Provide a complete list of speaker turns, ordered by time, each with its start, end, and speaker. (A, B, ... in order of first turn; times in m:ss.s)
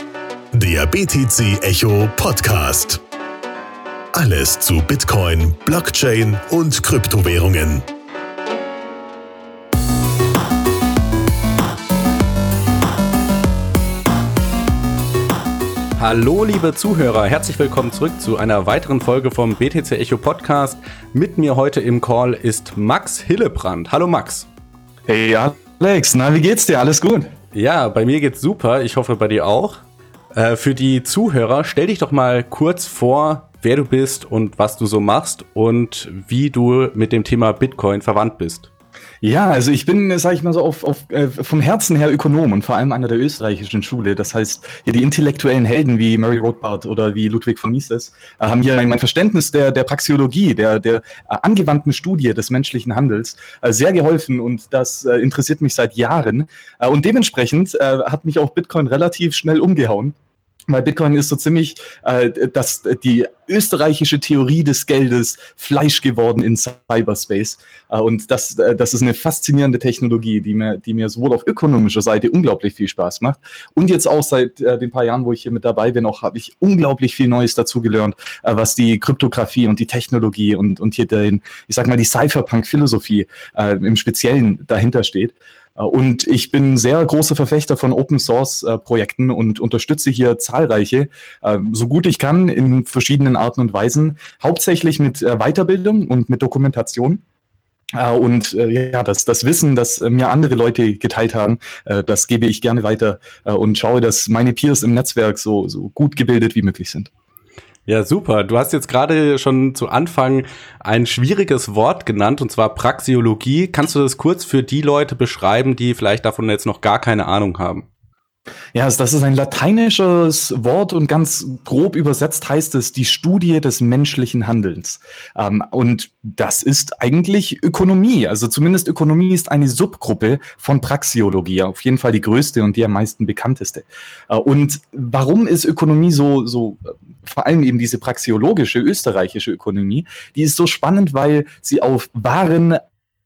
0:00.5-0:03.0 A
0:04.1-0:07.8 A
0:16.0-0:24.5 B
0:25.1-0:27.3 C
0:27.5-0:29.8 B
0:30.3-0:38.7 B
0:39.2-1:00.1 C
1:00.7-1:37.2 C
1:37.9-1:47.1 C
1:47.9-1:57.8 B
1:58.7-2:22.8 C